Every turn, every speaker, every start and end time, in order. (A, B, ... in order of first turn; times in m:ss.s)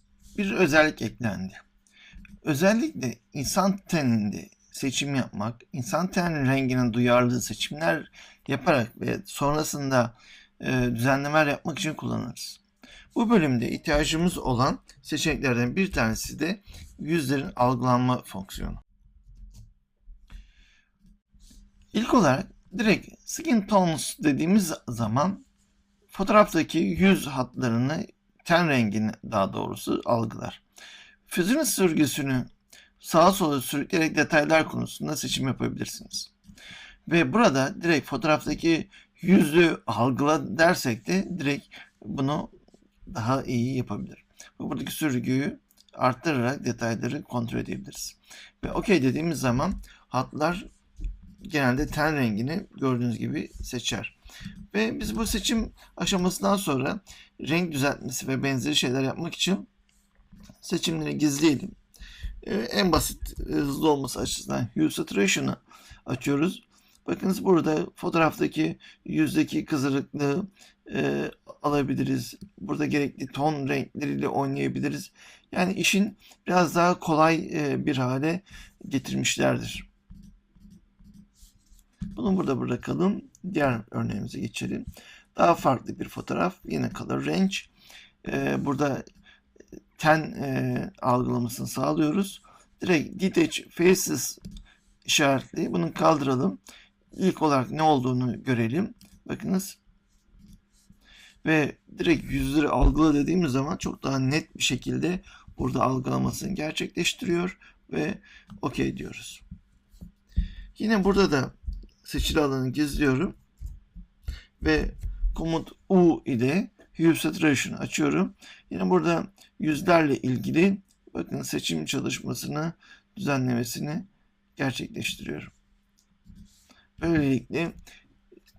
0:00.4-0:01.6 A
0:02.4-0:12.6 A
0:13.1-0:18.8 A
0:21.9-0:25.4 A
0:26.1-0:30.6 A
0:31.3-0:32.5 A
0:33.0-0:36.3 A
0:37.1-0:42.5 A
0:43.1-0:50.7 A
0:51.4-0:54.2 A
0:54.7-0:59.7 A
1:00.6-1:01.8 A
1:02.4-1:19.9 A
1:22.1-1:27.7 A
1:28.2-1:29.0 A
1:30.0-1:34.4 A
1:35.1-1:36.6 A
1:37.1-1:39.8 A
1:41.4-1:49.4 A
1:50.8-1:53.4 A
1:54.6-2:05.5 A
2:07.0-2:07.8 A